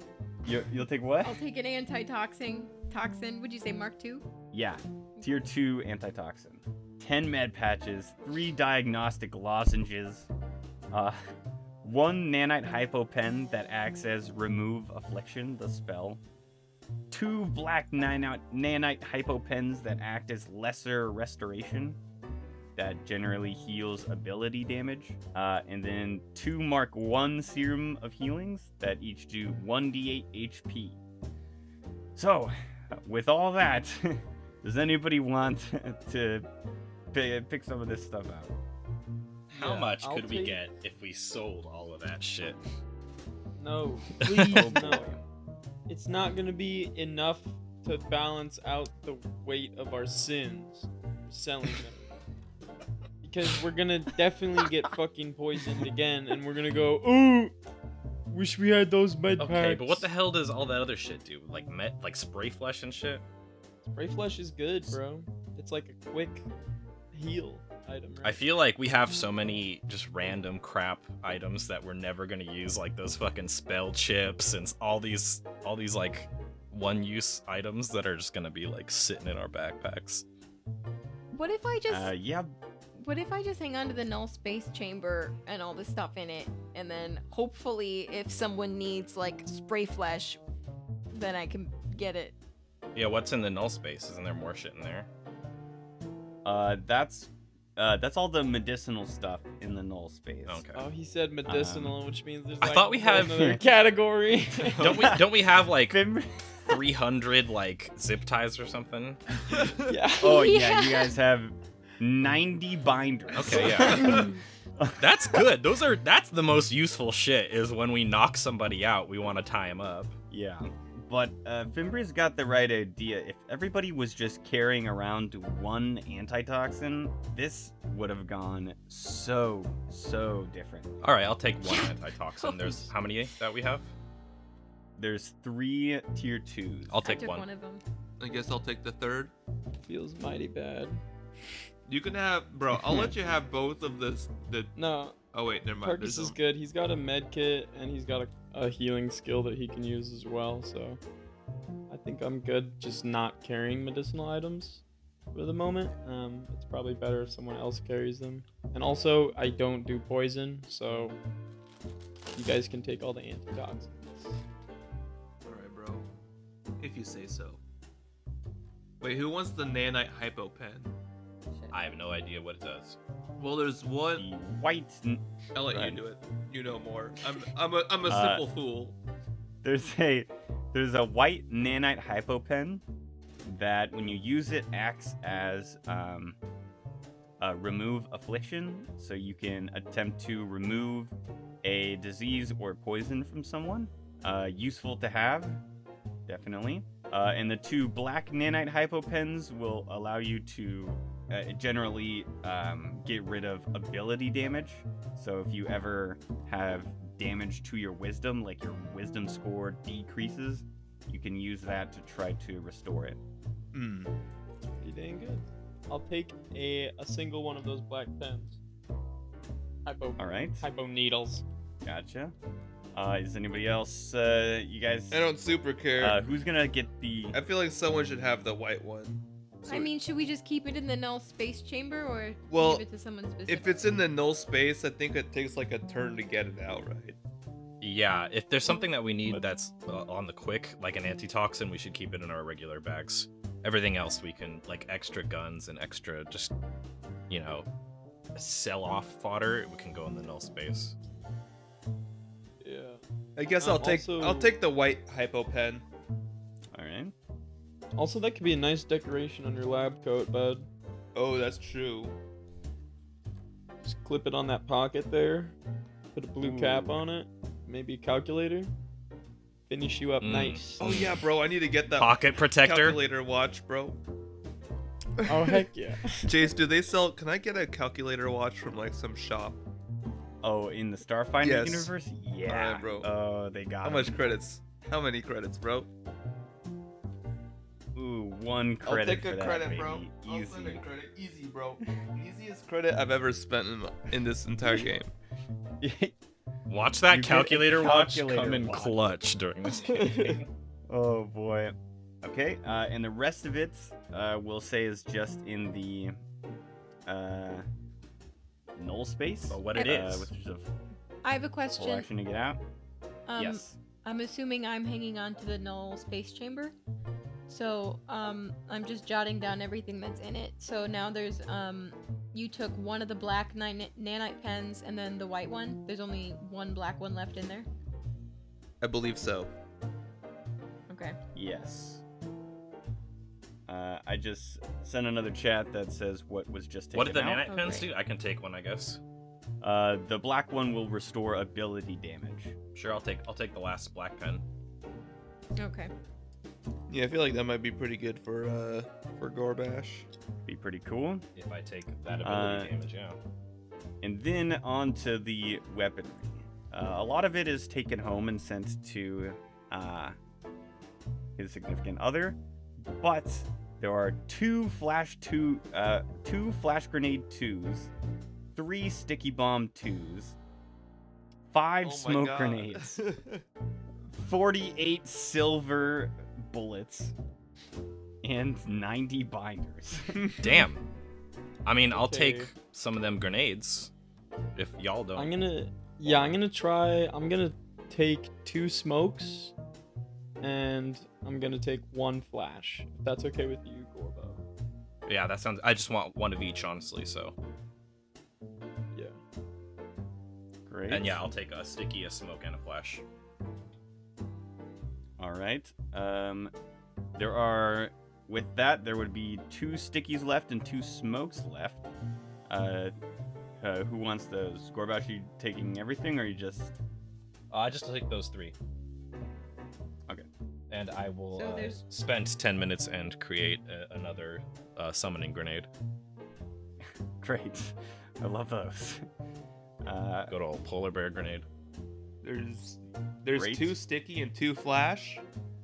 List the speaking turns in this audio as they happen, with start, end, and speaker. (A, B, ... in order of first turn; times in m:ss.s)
0:00.4-0:01.4 A
0:01.2-0:04.2 B
0:04.5-0:10.3 A
0:05.2-0:05.5 B
0:10.9-0:11.2 A
0:11.8-0:16.2 A
0:17.1-0:22.0 A
0:22.8-0:31.0 A
0:32.2-0:36.5 A
0:37.1-0:38.5 A
0:39.5-0:40.6 C
0:39.5-0:42.6 D
0:43.6-0:45.1 C
0:44.4-0:45.2 A
0:45.9-0:52.1 C
0:53.2-0:57.5 C
0:58.3-1:00.1 C
0:59.4-1:03.2 D
1:03.8-1:06.4 C
1:07.1-1:08.4 C
1:08.2-1:20.2 D
1:21.3-1:22.1 B
1:21.9-1:22.5 A
1:22.9-1:30.4 B
1:31.1-1:32.4 B
1:32.9-1:35.1 D
1:36.4-1:40.6 A
1:40.5-1:40.9 D
1:40.7-1:45.1 C
1:41.4-1:42.0 A
1:42.6-1:43.6 D
1:43.2-1:43.6 A
1:44.6-1:46.8 A
1:44.8-1:46.0 D
1:46.6-1:49.2 D
1:49.5-1:49.9 E
1:49.8-1:50.4 C
1:50.2-1:51.2 B
1:50.2-1:54.3 A
1:53.3-1:54.2 D
1:53.7-1:54.3 E
1:54.0-1:54.4 B
1:54.8-1:55.4 A
1:55.0-2:00.1 D
2:00.3-2:10.9 A
2:11.0-2:13.9 D
2:11.7-2:12.9 B
2:15.0-2:16.9 A
2:16.9-2:17.5 D
2:17.0-2:17.8 B
2:18.2-2:19.3 E
2:19.8-2:21.0 C
2:21.9-2:24.8 E
2:24.8-2:25.2 C
2:25.3-2:26.4 E
2:25.8-2:31.0 C
2:31.9-2:34.8 C
2:35.3-2:41.2 C
2:42.3-2:44.4 C
2:45.4-2:46.0 E
2:46.8-2:47.6 E
2:49.0-2:50.9 E
2:51.7-2:53.0 D
2:53.4-2:54.2 E
2:54.2-2:56.0 A
2:55.5-2:59.0 E
2:58.1-2:58.4 A
2:59.6-3:02.8 A
3:03.4-3:06.4 A
3:07.4-3:15.6 A
3:16.3-3:33.2 A
3:33.7-3:34.1 E
3:34.8-3:38.6 C
3:39.8-3:41.4 C
3:40.2-3:40.6 A
3:41.8-3:42.3 A
3:42.9-3:45.2 A
3:45.1-3:46.2 E
3:46.0-3:47.4 A
3:47.3-3:49.9 E
3:49.6-3:53.7 B
3:52.5-3:52.8 E
3:53.5-3:57.2 E
3:57.8-4:06.5 D
4:07.3-4:07.6 D
4:08.4-4:10.9 D
4:12.6-4:13.0 C
4:13.4-4:15.8 E
4:13.6-4:14.5 C
4:16.7-4:17.1 A
4:18.0-4:20.7 C
4:21.1-4:22.1 E
4:23.8-4:25.5 C
4:26.1-4:28.7 C
4:26.4-4:27.0 A
4:29.7-4:30.8 C
4:30.2-4:31.3 D
4:30.8-4:34.0 E
4:32.0-4:33.0 D
4:35.2-4:35.6 E
4:35.2-4:36.3 C
4:36.2-4:39.6 E
4:40.4-4:44.2 A
4:41.4-4:41.9 E
4:42.4-4:43.1 E
4:43.8-4:45.9 E
4:48.0-4:50.8 A
4:48.9-4:55.1 E
4:55.8-4:56.1 A
4:56.7-5:00.5 D
4:57.1-4:59.0 A
4:59.7-5:00.4 E
5:00.9-5:06.2 A
5:07.0-5:07.6 A
5:08.8-5:10.7 A
5:09.5-5:10.3 D
5:11.2-5:12.1 B
5:11.8-5:12.6 A
5:13.3-5:16.7 B
5:13.4-5:13.8 A
5:17.5-5:27.7 B
5:28.8-5:29.5 E
5:30.9-5:31.2 B
5:31.3-5:32.0 A
5:33.7-5:37.4 A
5:36.9-5:39.0 D
5:37.5-5:37.9 B
5:39.6-5:42.5 A
5:42.8-5:44.4 D
5:45.6-5:45.9 B
5:46.9-5:50.0 E
5:50.4-5:51.2 A
5:51.4-5:53.2 D
5:52.2-5:52.8 A
5:54.0-6:00.1 A
6:01.4-6:02.4 A
6:02.9-6:07.9 A
6:08.6-6:10.4 A
6:11.5-6:13.0 A
6:11.8-6:13.4 E
6:14.1-6:17.1 A
6:18.2-6:20.2 A
6:20.2-6:20.4 E
6:20.4-6:20.8 D
6:21.6-6:23.9 D
6:21.9-6:22.5 C
6:24.6-6:25.3 D
6:25.1-6:29.5 C
6:30.4-6:34.4 C
6:35.1-6:37.3 D
6:40.6-6:41.2 A
6:40.9-6:43.0 D
6:45.2-6:46.5 A
6:47.2-6:51.9 A
6:52.5-6:52.9 A
6:53.6-6:56.7 A
6:57.5-6:58.5 D
7:00.7-7:05.7 D
7:01.3-7:01.8 B
7:07.2-7:09.0 A
7:09.8-7:10.3 A
7:10.3-7:11.4 D
7:12.2-7:15.2 E
7:13.3-7:13.8 A